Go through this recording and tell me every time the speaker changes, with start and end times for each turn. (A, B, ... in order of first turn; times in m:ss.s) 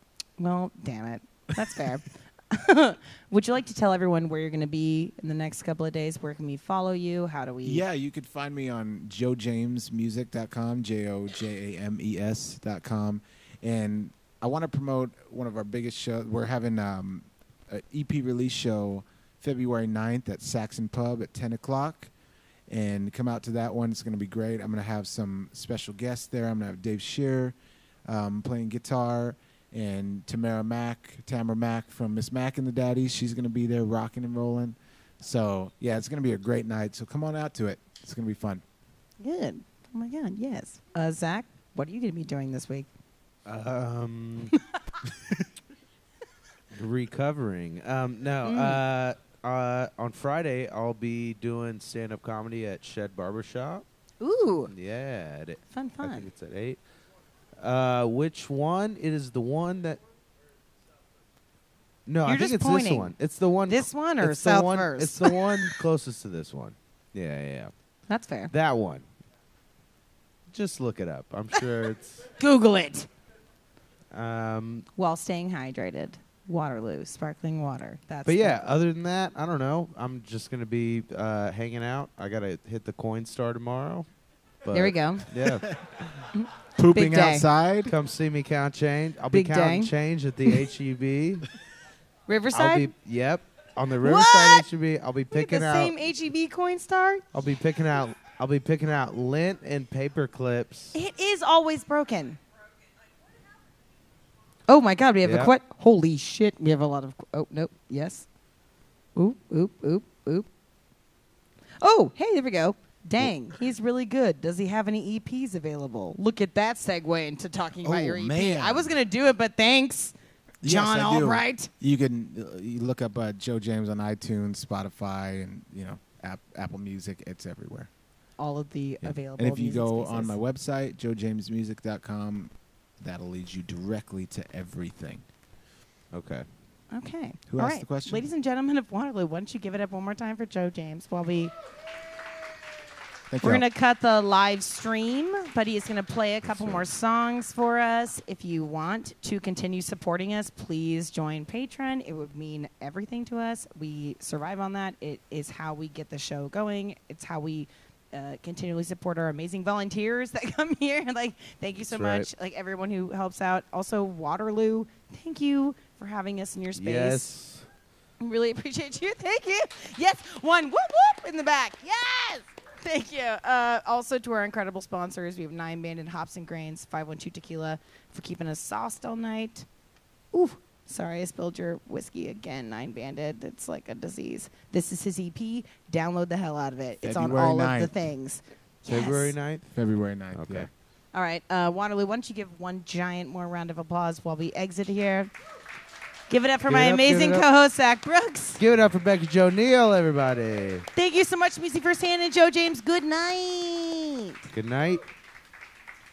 0:00.4-0:07.8 A
0:01.6-0:01.9 B
0:07.6-0:22.1 B
0:22.7-0:38.6 B
0:39.2-0:42.9 A
0:43.5-0:44.5 C
0:46.7-0:53.8 C
0:48.4-0:48.8 A
0:54.2-0:54.7 A
0:54.7-0:56.8 C
0:55.7-0:56.3 A
0:57.6-1:00.0 C
1:02.1-1:07.7 C
1:02.2-1:03.1 A
1:03.7-1:05.8 A
1:08.1-1:08.5 A
1:08.5-1:09.1 C
1:10.5-1:12.3 C
1:12.4-1:13.1 A
1:14.1-1:14.9 C
1:15.0-1:18.6 A
1:18.3-1:24.1 C
1:24.6-1:25.7 C
1:24.7-1:25.3 A
1:25.6-1:27.9 B
1:26.4-1:27.5 A
1:27.9-1:31.5 C
1:29.3-1:29.9 A
1:32.3-1:32.9 A
1:32.5-1:35.9 C
1:34.0-1:34.6 A
1:35.3-1:37.2 A
1:37.3-1:41.0 C
1:40.9-1:42.4 A
1:44.7-1:48.3 A
1:45.2-1:45.5 C
1:49.2-1:50.5 A
1:51.8-2:01.7 A
1:57.8-1:58.9 B
2:00.6-2:07.9 B
2:08.4-2:10.4 A
2:09.0-2:15.2 B
2:16.1-2:16.5 C
2:16.9-2:21.5 A
2:17.5-2:18.2 B
2:23.3-2:23.6 B
2:23.4-2:47.3 A
2:26.6-2:26.8 C
2:41.9-2:42.3 C
2:46.8-2:47.7 C
2:48.2-2:59.7 A
3:00.3-3:09.3 A
3:07.0-3:08.0 B
3:08.9-3:09.7 C
3:09.7-3:10.7 B
3:10.4-3:10.7 C
3:11.1-3:15.3 A
3:16.3-3:18.6 A
3:16.7-3:17.4 C
3:18.6-3:20.9 C
3:21.0-3:24.5 A
3:24.5-3:25.0 C